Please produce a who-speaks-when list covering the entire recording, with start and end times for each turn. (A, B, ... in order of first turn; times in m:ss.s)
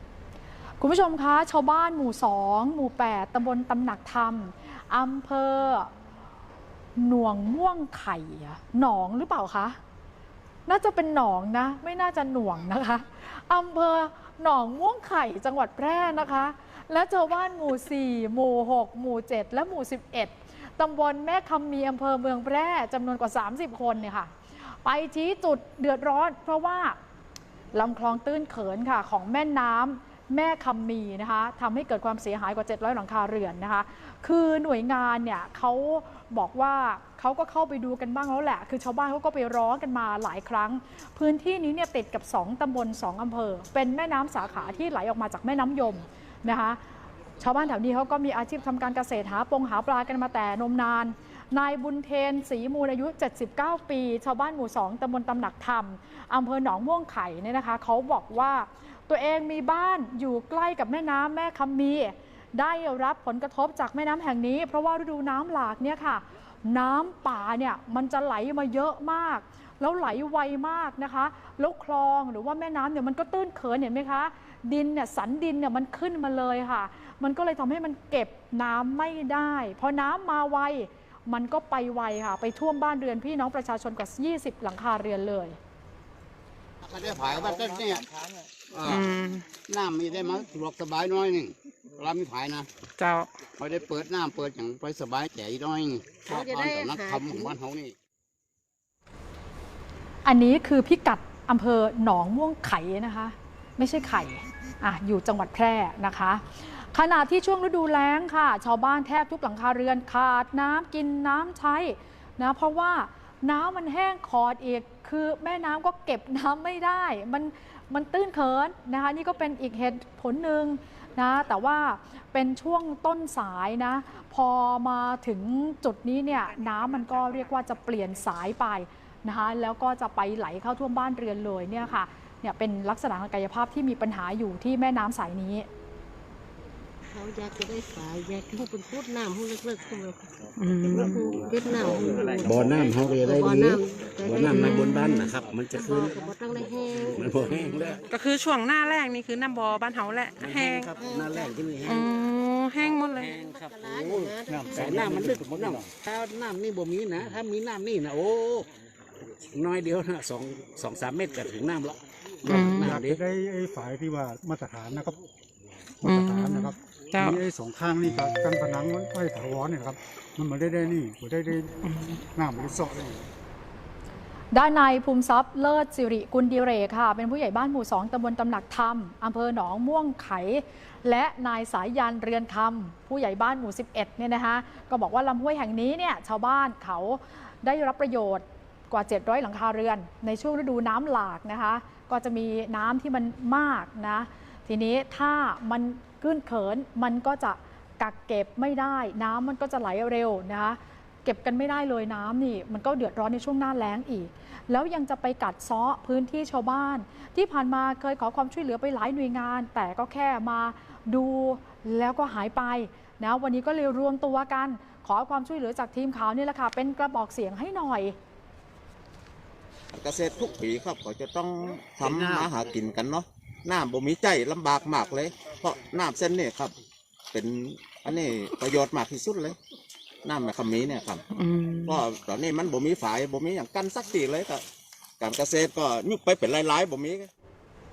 0:00.8-0:05.9 A
0:07.0-0:09.8 A
0:10.7-0:27.0 A
0:27.7-0:46.8 A
0:47.4-1:25.6 A
1:26.8-1:28.2 B
1:28.7-1:32.7 B
1:28.9-1:29.5 C
1:33.0-1:33.3 C
1:33.5-1:38.0 B
1:36.3-1:37.6 D
1:40.2-2:15.7 A
2:17.1-2:20.3 D
2:20.6-2:21.2 C
2:20.9-2:24.8 D
2:22.4-2:23.8 B
2:24.2-2:26.3 E
2:24.5-2:25.3 C
2:25.7-2:28.0 D
2:27.1-2:28.0 E
2:28.1-2:30.9 C
2:30.4-2:32.1 E
2:31.0-2:31.6 D
2:31.9-2:33.3 C
2:32.8-2:38.7 E
2:33.3-2:35.3 D
2:34.5-2:35.8 F
2:39.5-2:43.2 E
2:42.5-2:45.2 F
2:42.5-2:43.0 C
2:46.0-2:53.3 F
2:46.0-2:47.4 C
2:51.8-2:52.2 C
2:54.5-3:38.2 A
3:39.9-3:46.8 G
3:42.0-3:42.5 B
3:47.3-3:49.6 G
3:50.2-3:51.2 G
3:51.3-3:52.0 C
3:51.8-3:54.6 G
3:55.2-3:57.3 G